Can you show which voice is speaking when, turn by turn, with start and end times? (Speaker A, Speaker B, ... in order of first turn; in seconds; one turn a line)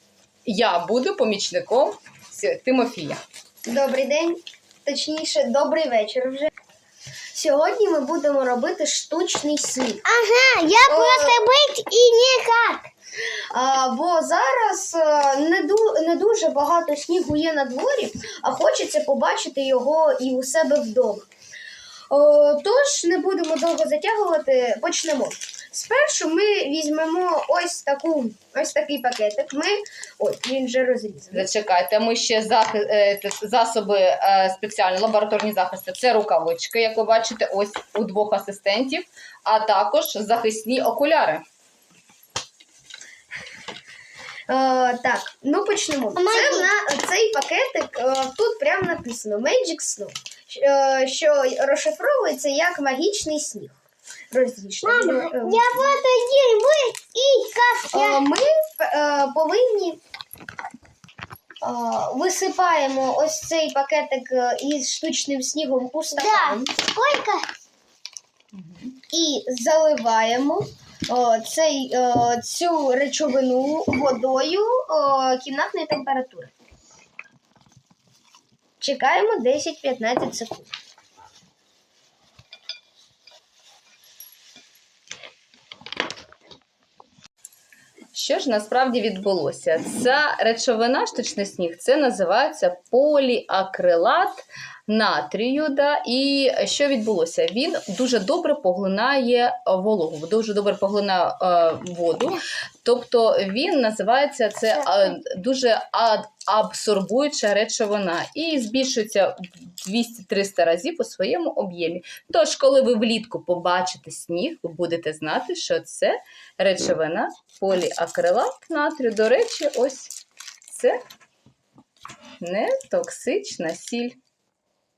Speaker A: 0.5-3.2
Speaker B: 3.6-6.5
Speaker B: 7.3-10.0
Speaker C: 10.0-12.9
Speaker B: 10.8-11.4
Speaker B: 13.5-21.3
Speaker B: 22.1-31.5
Speaker A: 31.3-41.4
Speaker B: 44.5-53.8
Speaker C: 46.1-46.7
Speaker B: 54.3-55.7
Speaker C: 54.8-58.2
Speaker B: 57.9-60.0
Speaker B: 61.6-66.7
Speaker C: 66.2-67.5
Speaker A: 68.5-68.9
Speaker B: 69.1-76.5
Speaker B: 78.8-80.7
Speaker A: 88.1-120.1
Speaker A: 120.7-121.0
Speaker A: 122.4-124.2